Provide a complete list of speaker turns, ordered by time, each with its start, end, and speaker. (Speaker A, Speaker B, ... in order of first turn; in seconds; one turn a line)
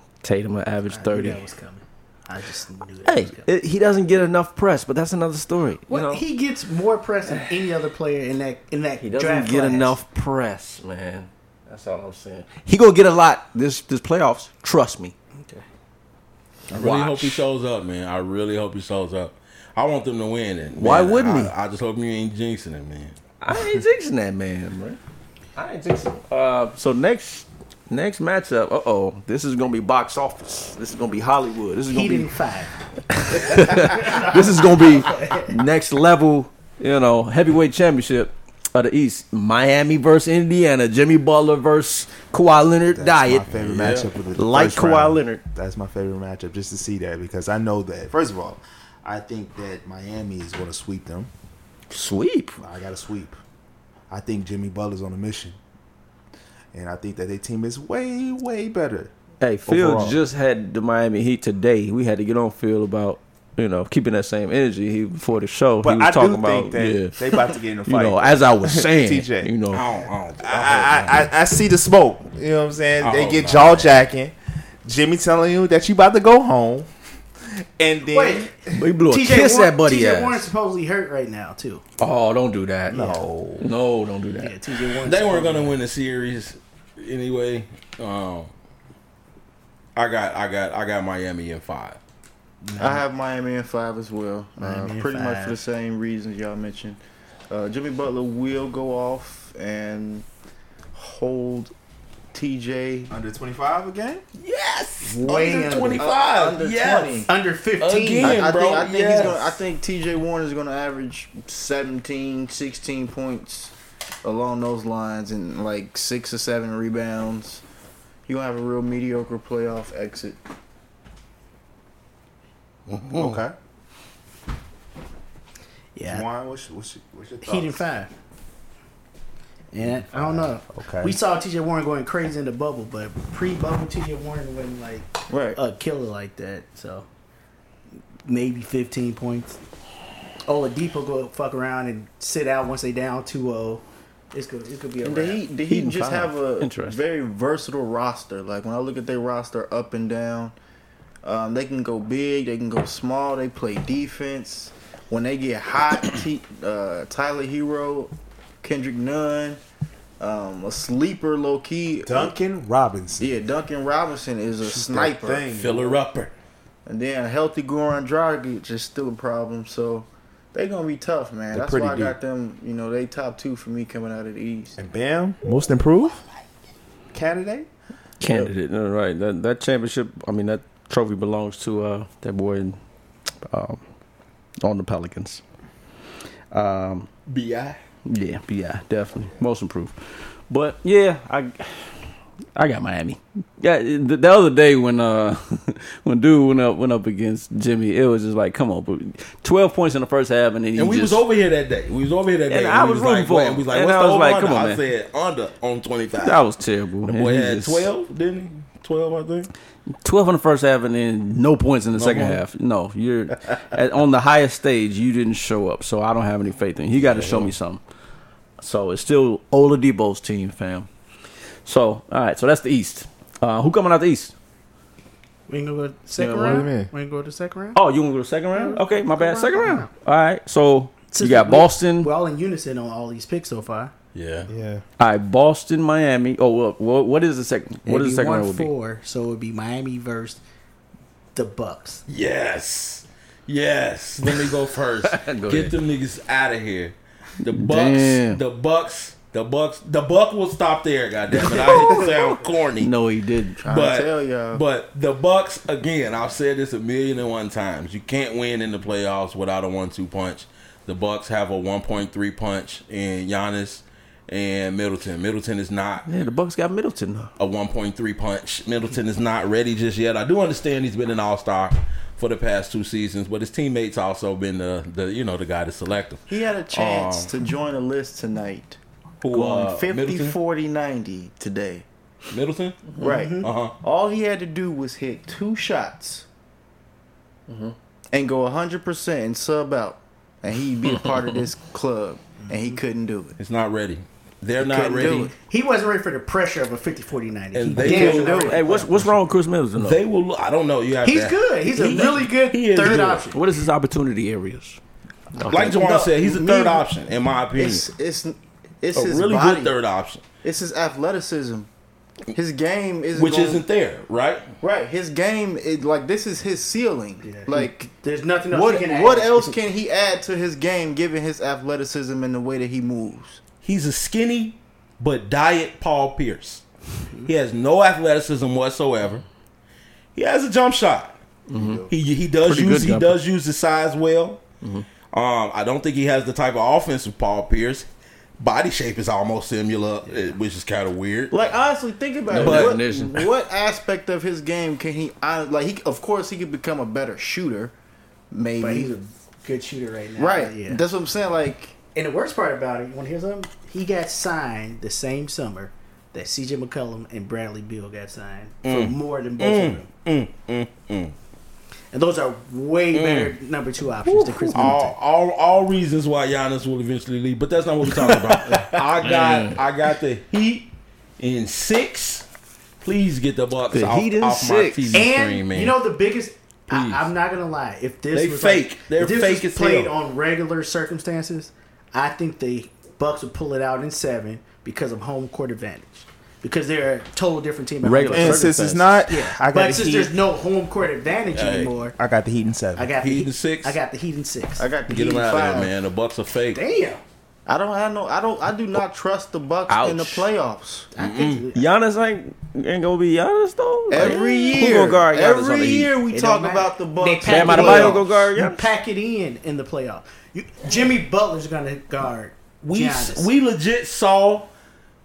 Speaker A: 0.2-1.4
Speaker B: 0.9-3.5
Speaker A: 3.0-6.2
Speaker B: 5.9-10.0
Speaker A: 7.3-7.5
Speaker A: 9.0-15.1
Speaker B: 15.4-15.6
Speaker A: 16.7-17.4
Speaker C: 16.7-23.1
Speaker A: 20.8-21.5
Speaker A: 23.4-25.0
Speaker A: 25.6-32.3
Speaker B: 31.9-32.8
Speaker A: 33.1-43.5
Speaker B: 33.3-35.6
Speaker D: 42.9-51.3
Speaker C: 43.5-44.1
Speaker A: 44.3-45.4
Speaker A: 51.9-52.6
Speaker D: 52.6-53.4
Speaker D: 54.1-55.6
Speaker D: 56.7-59.1
Speaker A: 59.4-69.8
Speaker D: 59.7-60.1
Speaker D: 65.8-69.5
Speaker C: 69.7-71.3
Speaker D: 70.4-76.9
Speaker C: 73.0-74.0
Speaker D: 77.6-78.8
Speaker B: 78.1-78.5
Speaker A: 78.7-80.5
Speaker B: 79.0-81.8
Speaker A: 82.0-83.0
Speaker D: 82.9-83.7
Speaker B: 82.9-83.2
Speaker A: 83.6-84.5
Speaker B: 84.4-85.8
Speaker C: 85.0-88.5
Speaker C: 90.0-92.0
Speaker B: 92.6-93.0
Speaker E: 92.8-100.3
Speaker B: 94.6-95.6
Speaker E: 100.9-101.7
Speaker E: 102.3-103.1
Speaker D: 103.1-104.2
Speaker C: 104.4-107.3
Speaker B: 105.0-106.1
Speaker E: 105.3-107.3
Speaker B: 107.3-108.4
Speaker C: 107.8-109.5
Speaker E: 108.2-113.7
Speaker E: 114.2-117.6
Speaker E: 118.2-120.4
Speaker C: 122.9-123.4
Speaker D: 123.1-123.5
Speaker B: 125.9-126.3
Speaker D: 126.1-127.8
Speaker B: 127.4-128.1
Speaker B: 129.7-137.1
Speaker D: 129.8-131.2
Speaker E: 135.3-135.6
Speaker B: 138.2-139.6
Speaker B: 140.5-145.4
Speaker E: 145.0-150.5
Speaker A: 145.7-147.0
Speaker E: 151.2-159.6
Speaker E: 160.2-162.3
Speaker D: 162.1-163.3
Speaker E: 163.2-165.4
Speaker D: 164.6-166.0
Speaker C: 165.5-166.3
Speaker E: 166.8-174.8
Speaker D: 171.5-172.2
Speaker D: 174.8-176.2
Speaker D: 177.1-177.7
Speaker A: 178.2-182.8
Speaker A: 183.5-183.8
Speaker A: 184.6-185.4
Speaker A: 186.5-187.1
Speaker C: 187.3-187.8
Speaker A: 188.1-192.0
Speaker A: 192.5-201.2
Speaker C: 200.8-206.4
Speaker A: 202.5-204.8
Speaker A: 206.2-207.9
Speaker C: 207.1-209.5
Speaker A: 210.0-217.8
Speaker C: 211.9-212.4
Speaker C: 217.0-217.5
Speaker A: 218.6-220.9
Speaker A: 221.6-224.3
Speaker B: 225.5-227.8
Speaker A: 226.2-226.7
Speaker D: 226.3-226.9
Speaker A: 227.7-232.1
Speaker B: 228.5-229.9
Speaker B: 231.1-233.9
Speaker C: 234.1-234.5
Speaker D: 234.5-234.8
Speaker A: 235.0-238.7
Speaker B: 237.8-240.4
Speaker B: 241.3-242.0
Speaker C: 242.1-252.9
Speaker A: 245.0-245.7
Speaker A: 247.4-248.4
Speaker A: 251.3-253.6
Speaker E: 253.6-254.6
Speaker C: 253.7-266.1
Speaker A: 266.1-267.3
Speaker C: 267.4-277.3
Speaker E: 276.3-278.8
Speaker C: 279.2-280.4
Speaker E: 279.3-281.9
Speaker C: 282.3-283.8
Speaker E: 283.0-286.2
Speaker B: 283.0-283.5
Speaker A: 287.5-287.7
Speaker E: 288.1-293.4
Speaker B: 292.4-292.8
Speaker C: 293.4-295.3
Speaker B: 294.7-298.7
Speaker E: 294.7-295.3
Speaker C: 297.5-299.1
Speaker A: 297.8-300.0
Speaker E: 298.0-298.5
Speaker C: 299.8-303.3
Speaker B: 301.0-303.4
Speaker A: 303.3-304.8
Speaker A: 305.4-306.1
Speaker C: 305.5-307.8
Speaker E: 305.6-306.8
Speaker E: 307.5-309.7
Speaker C: 308.9-310.2
Speaker E: 310.4-311.7
Speaker E: 312.3-313.6
Speaker C: 313.1-314.4
Speaker E: 314.6-317.9
Speaker B: 317.2-319.6
Speaker E: 318.5-323.4
Speaker C: 323.6-326.6
Speaker C: 327.2-329.2
Speaker C: 330.1-331.2
Speaker A: 331.5-331.9
Speaker D: 331.5-331.9
Speaker C: 331.9-334.4
Speaker A: 332.4-333.2
Speaker A: 334.6-334.9
Speaker C: 335.1-337.9
Speaker C: 338.4-341.4
Speaker B: 340.1-340.3
Speaker E: 341.3-347.7
Speaker A: 342.3-343.3
Speaker C: 342.4-342.8
Speaker E: 348.3-348.9
Speaker B: 348.6-350.8
Speaker E: 350.2-351.7
Speaker B: 351.9-359.9
Speaker C: 358.6-361.1
Speaker B: 361.9-364.9
Speaker C: 362.9-363.3
Speaker C: 364.2-372.2
Speaker A: 369.0-369.6
Speaker C: 372.8-375.8
Speaker A: 373.7-375.0
Speaker B: 374.9-388.5
Speaker C: 376.7-377.1
Speaker C: 378.1-379.9
Speaker A: 387.8-388.9
Speaker D: 388.1-390.1
Speaker B: 389.1-391.9
Speaker C: 391.3-391.8
Speaker D: 391.9-392.9
Speaker B: 392.8-394.8
Speaker C: 393.0-393.8
Speaker E: 394.6-395.7
Speaker C: 394.9-396.6
Speaker B: 396.5-397.0
Speaker E: 397.4-400.9
Speaker A: 399.7-400.3
Speaker B: 400.9-401.6
Speaker C: 400.9-401.5
Speaker A: 401.5-405.9
Speaker E: 403.9-408.0
Speaker B: 406.1-413.3
Speaker A: 407.2-408.6
Speaker C: 412.6-414.5